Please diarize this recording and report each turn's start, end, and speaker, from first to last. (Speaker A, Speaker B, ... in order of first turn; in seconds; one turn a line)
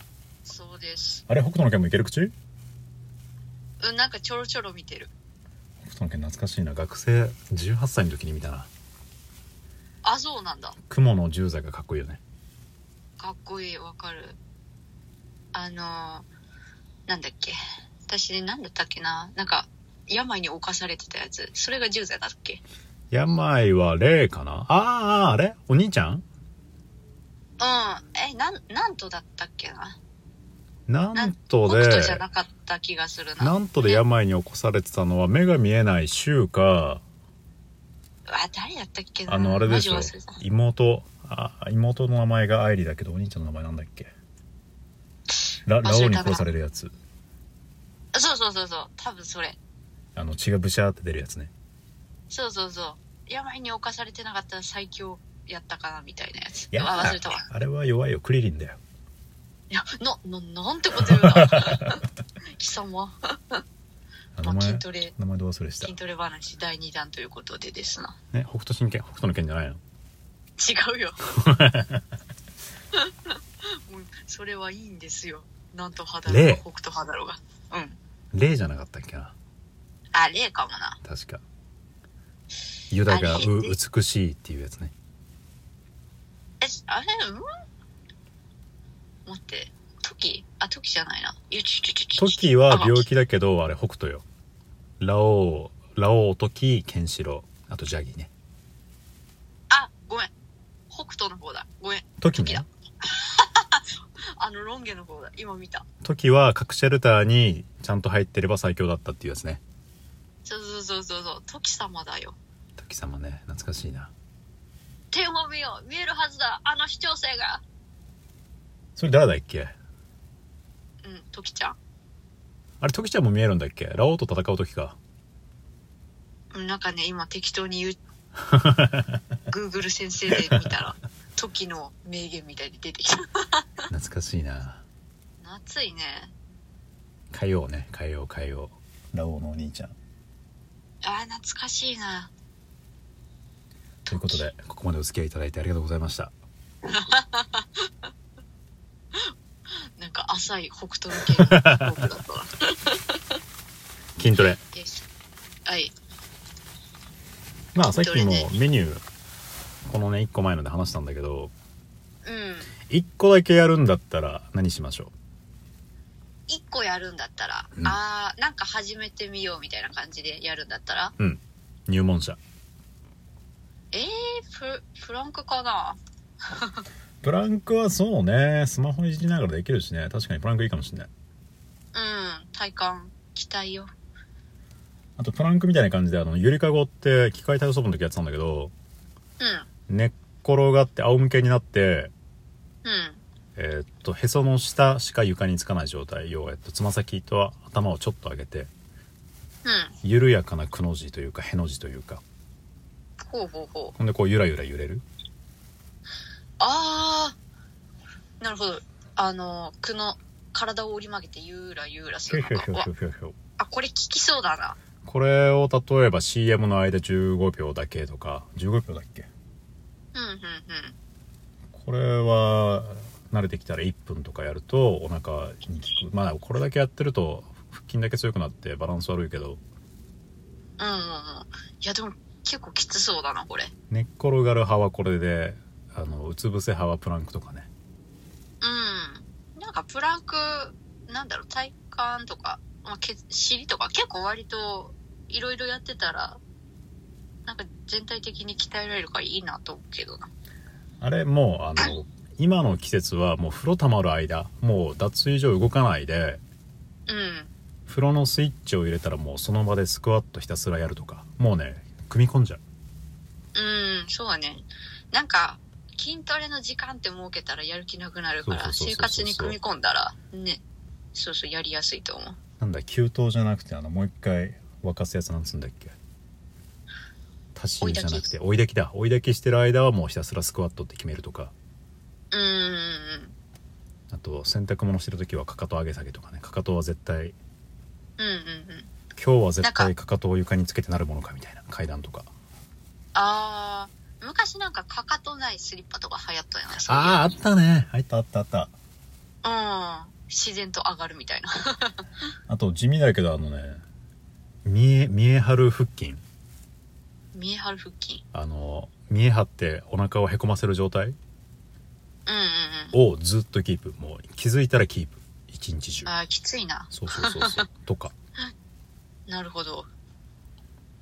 Speaker A: 0.4-1.2
Speaker B: 1.3-2.3
Speaker A: 3.8-5.1
Speaker B: 5.8-8.7
Speaker A: 10.0-10.8
Speaker B: 10.9-12.2
Speaker A: 13.2-14.4
Speaker A: 15.5-16.3
Speaker A: 17.1-17.6
Speaker A: 18.1-22.6
Speaker B: 23.1-26.2
Speaker A: 27.6-30.0
Speaker B: 30.9-32.2
Speaker A: 31.1-34.0
Speaker B: 33.4-37.0
Speaker A: 38.3-40.4
Speaker B: 39.3-44.1
Speaker B: 45.7-46.9
Speaker A: 45.8-46.4
Speaker A: 48.1-49.6
Speaker B: 50.1-51.5
Speaker A: 52.3-57.5
Speaker B: 56.7-58.8
Speaker A: 59.7-62.0
Speaker B: 61.3-61.7
Speaker A: 62.5-63.6
Speaker B: 64.3-65.9
Speaker A: 64.4-65.1
Speaker A: 65.8-68.1
Speaker B: 68.3-69.8
Speaker A: 70.6-71.2
Speaker B: 71.4-72.0
Speaker A: 72.9-78.0
Speaker B: 76.3-76.6
Speaker B: 78.3-79.3
Speaker A: 80.1-81.0
Speaker B: 81.0-81.4
Speaker B: 82.9-84.9
Speaker A: 83.1-83.7
Speaker A: 86.6-87.4
Speaker A: 89.2-93.0
Speaker B: 92.2-94.2
Speaker B: 95.0-98.3
Speaker A: 99.7-100.3
Speaker A: 100.9-105.8
Speaker B: 102.2-102.6
Speaker B: 106.0-109.6
Speaker A: 110.4-112.4
Speaker B: 112.8-114.1
Speaker A: 115.1-117.6
Speaker B: 119.0-119.7
Speaker A: 121.0-121.8
Speaker B: 122.8-125.0
Speaker A: 126.5-128.0
Speaker B: 128.4-129.2
Speaker A: 129.5-133.6
Speaker B: 130.3-130.7
Speaker B: 133.9-134.8
Speaker A: 135.4-136.3
Speaker B: 137.3-139.9
Speaker A: 141.0-142.3
Speaker B: 144.1-146.3
Speaker A: 144.1-144.4
Speaker A: 146.8-147.8
Speaker A: 149.9-153.2
Speaker B: 151.2-152.1
Speaker B: 154.2-154.6
Speaker A: 154.7-155.0
Speaker A: 155.7-155.9
Speaker B: 157.7-159.0
Speaker A: 157.9-158.5
Speaker B: 159.8-161.5
Speaker A: 162.2-162.7
Speaker B: 162.9-165.1
Speaker A: 166.5-171.1
Speaker B: 171.2-172.4
Speaker A: 173.9-176.8
Speaker B: 177.2-181.1
Speaker A: 181.9-183.9
Speaker B: 185.2-188.7
Speaker A: 189.4-189.7
Speaker B: 189.9-192.1
Speaker A: 192.8-193.2
Speaker B: 193.6-198.7
Speaker A: 199.6-199.9
Speaker B: 200.0-202.2
Speaker A: 203.2-203.9
Speaker B: 204.0-205.0
Speaker A: 206.6-207.3
Speaker A: 208.4-212.9
Speaker B: 212.3-213.3
Speaker A: 213.6-214.8
Speaker B: 215.0-219.3
Speaker A: 220.1-220.9
Speaker B: 221.7-229.6
Speaker A: 230.8-233.7
Speaker B: 233.9-237.7
Speaker A: 238.6-246.4
Speaker A: 247.4-250.3
Speaker B: 251.0-256.4
Speaker A: 257.1-257.5
Speaker B: 257.9-262.6
Speaker A: 263.5-270.6
Speaker B: 268.4-269.6
Speaker A: 271.1-272.4
Speaker B: 272.6-275.9
Speaker B: 277.5-281.5
Speaker A: 277.8-278.3
Speaker A: 282.3-283.3
Speaker B: 284.1-287.4
Speaker A: 288.2-288.9
Speaker B: 289.1-292.3
Speaker A: 289.6-289.9
Speaker A: 293.1-297.3
Speaker B: 296.9-298.7
Speaker A: 299.4-302.1
Speaker B: 302.5-303.8
Speaker B: 304.6-306.2
Speaker A: 307.3-308.2
Speaker B: 308.3-311.2
Speaker A: 312.2-313.0
Speaker B: 312.9-316.1
Speaker A: 316.1-317.6
Speaker B: 316.9-318.1
Speaker A: 319.3-319.9